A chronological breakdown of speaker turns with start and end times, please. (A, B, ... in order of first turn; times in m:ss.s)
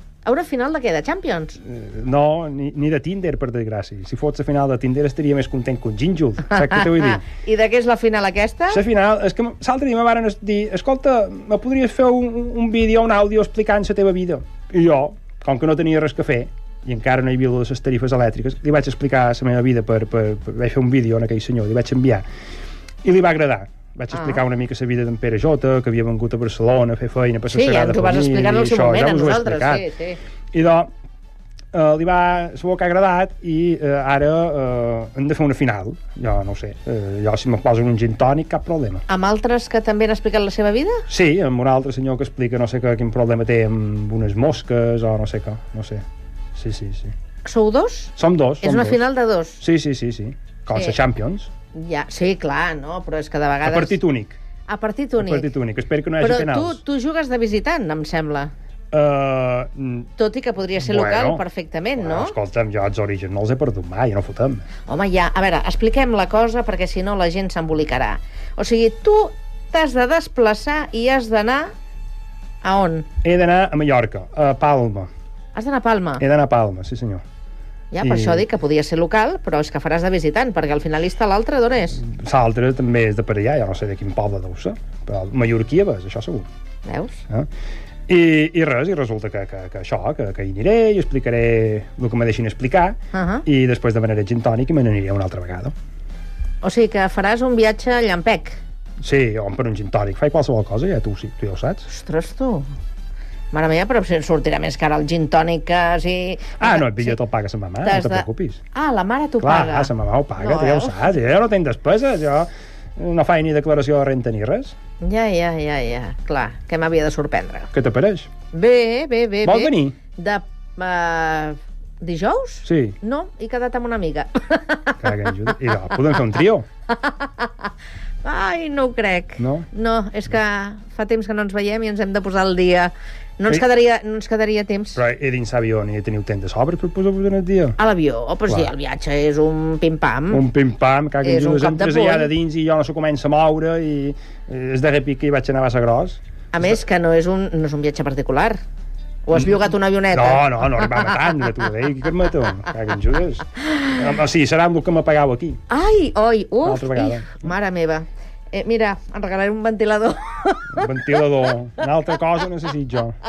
0:00.2-0:01.6 A
0:01.6-0:07.2 B
0:06.7-0:08.8 A
0:08.7-0:22.2 B
0:23.0-0:29.9 B
0:24.1-0:24.4 A
0:27.5-0:30.2 A
0:30.5-0:30.9 B
0:31.7-0:39.0 B
0:39.1-0:41.0 A
0:41.1-0:46.0 B
0:46.5-0:47.1 B
0:47.4-0:49.6 A
0:48.2-0:49.1 B
0:49.6-0:51.5 B
0:51.7-0:54.0 A
0:53.6-0:54.4 B
0:54.7-0:55.5 A
0:55.2-0:56.8 B
0:56.2-0:58.5 A
0:58.9-1:00.1 B
1:00.2-1:02.3 A
1:00.8-1:01.4 B
1:02.0-1:04.6 B
1:04.8-1:11.7 A
1:12.6-1:13.1 A
1:13.2-1:15.1 B
1:15.5-1:16.2 A
1:16.2-1:17.2 B
1:17.9-1:22.0 A
1:18.0-1:18.4 B
1:22.0-1:26.4 B
1:26.8-1:27.2 A
1:28.1-1:35.7 B
1:33.1-1:33.4 A
1:36.6-1:38.6 A
1:39.0-1:41.9 B
1:41.9-1:42.7 A
1:43.5-1:47.2 A
1:46.6-1:48.6 B
1:47.8-1:51.1 A
1:49.4-1:54.7 B
1:55.0-1:57.7 A
1:57.7-1:58.3 B
1:58.5-2:05.0 A
1:59.4-2:00.0 B
2:02.6-2:03.0 B
2:05.0-2:06.6 B
2:07.0-2:07.7 A
2:08.2-2:15.0 A
2:09.4-2:09.7 B
2:15.0-2:17.8 B
2:17.8-2:20.4 A
2:20.3-2:26.8 B
2:21.2-2:22.3 A
2:26.5-2:28.6 A
2:29.2-2:31.3 A
2:30.1-2:35.6 B
2:35.7-2:41.2 A
2:36.6-2:37.5 B
2:40.7-2:43.2 B